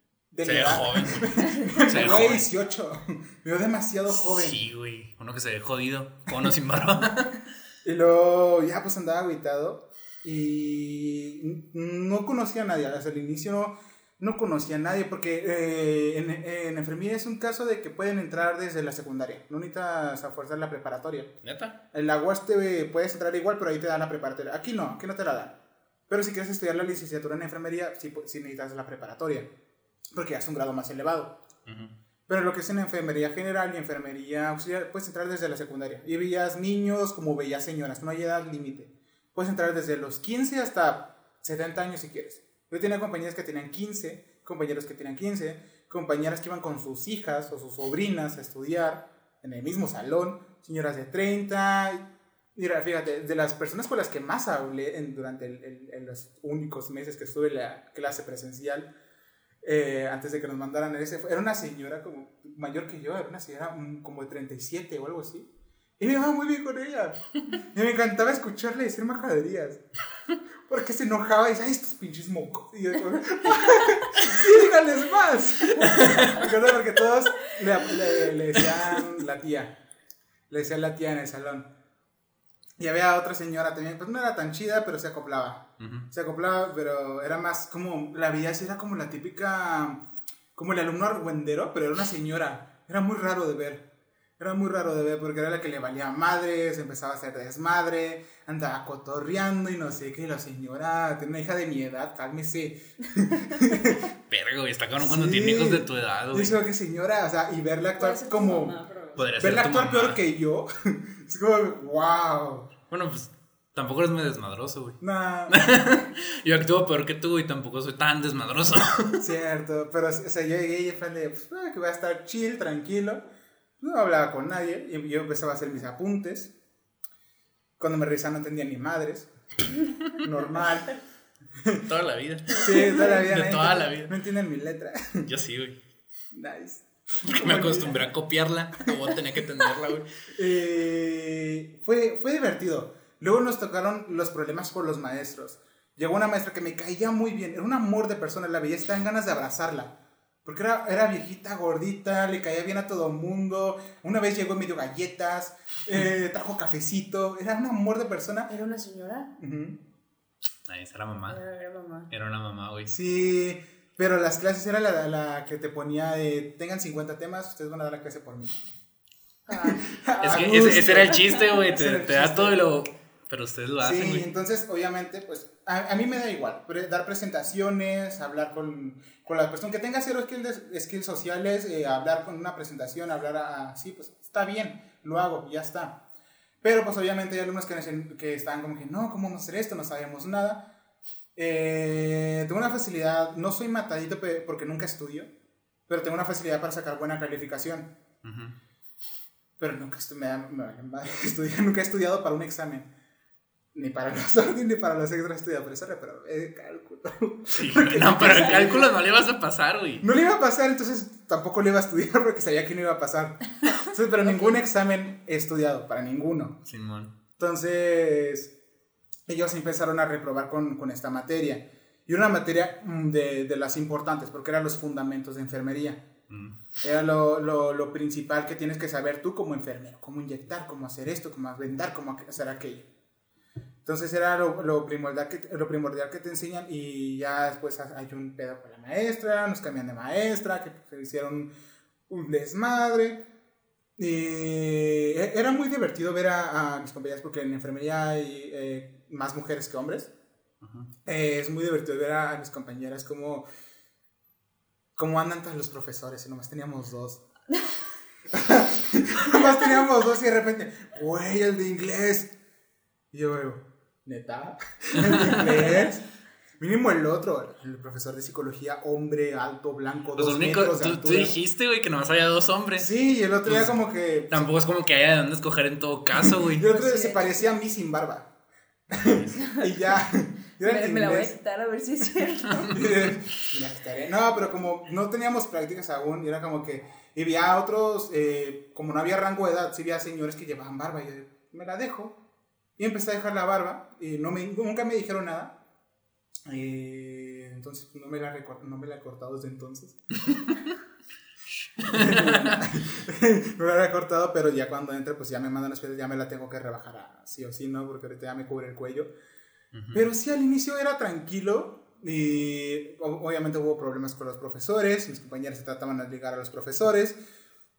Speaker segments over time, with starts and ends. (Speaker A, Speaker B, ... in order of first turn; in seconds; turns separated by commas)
Speaker A: 0.3-4.6, Speaker B: 0.5-2.5, Speaker B: 4.1-7.3, Speaker A: 7.8-21.3, Speaker B: 21.4-21.8, Speaker A: 21.9-25.6, Speaker A: 26.1-29.5, Speaker A: 30.1-31.4, Speaker B: 31.7-31.9, Speaker A: 32.3-58.9, Speaker A: 59.6-69.8, Speaker A: 70.7-79.8, Speaker B: 75.8-76.5, Speaker B: 78.6-79.0, Speaker A: 80.5-81.7, Speaker A: 82.8-90.0, Speaker B: 85.8-86.1, Speaker A: 90.5-93.9, Speaker A: 94.4-104.1, Speaker B: 104.3-106.6, Speaker A: 105.0-108.8, Speaker C: 108.0-109.3, Speaker B: 109.2-110.2, Speaker A: 109.4-112.7, Speaker B: 112.9-119.2, Speaker A: 115.0-115.6, Speaker A: 119.2-123.2, Speaker A: 123.8-126.5, Speaker A: 127.8-129.3, Speaker A: 130.2-131.0, Speaker A: 131.6-131.9, Speaker B: 131.9-134.1, Speaker A: 132.5-135.3, Speaker B: 135.3-135.8, Speaker A: 136.3-138.1, Speaker B: 137.2-140.1, Speaker A: 140.3-149.9, Speaker A: 150.4-158.5, Speaker C: 158.5-159.3, Speaker A: 159.4-159.8, Speaker B: 160.7-161.4, Speaker C: 161.3-162.1, Speaker B: 162.1-162.9, Speaker A: 162.9-168.6, Speaker C: 169.5-170.4, Speaker A: 169.6-172.7, Speaker B: 170.2-174.3, Speaker A: 173.8-186.0, Speaker A: 186.6-190.7, Speaker A: 191.4-195.3, Speaker A: 195.9-197.9, Speaker B: 198.2-198.6, Speaker A: 199.6-202.9, Speaker A: 203.7-208.9, Speaker B: 207.5-210.1, Speaker A: 210.0-216.6, Speaker C: 214.2-214.6, Speaker B: 216.7-217.1, Speaker A: 217.4-218.6, Speaker A: 219.3-226.1, Speaker B: 226.3-226.6, Speaker A: 226.8-232.9, Speaker A: 233.8-241.5, Speaker A: 242.1-243.2, Speaker A: 244.0-250.1, Speaker B: 250.6-250.9, Speaker A: 251.1-253.4, Speaker A: 255.0-257.2, Speaker A: 258.3-262.3, Speaker A: 263.1-266.1, Speaker B: 265.0-265.4, Speaker A: 266.6-271.3, Speaker B: 270.1-272.9, Speaker A: 272.8-274.4, Speaker B: 273.4-273.8, Speaker B: 274.3-276.6, Speaker A: 276.2-278.3, Speaker C: 276.6-277.5, Speaker A: 278.9-281.4, Speaker B: 279.0-279.3, Speaker C: 279.4-279.9, Speaker C: 280.6-282.8, Speaker A: 282.5-292.2, Speaker A: 292.8-295.6, Speaker A: 296.5-300.0, Speaker B: 301.8-302.6, Speaker A: 301.9-309.1, Speaker B: 309.7-310.1, Speaker A: 309.9-317.2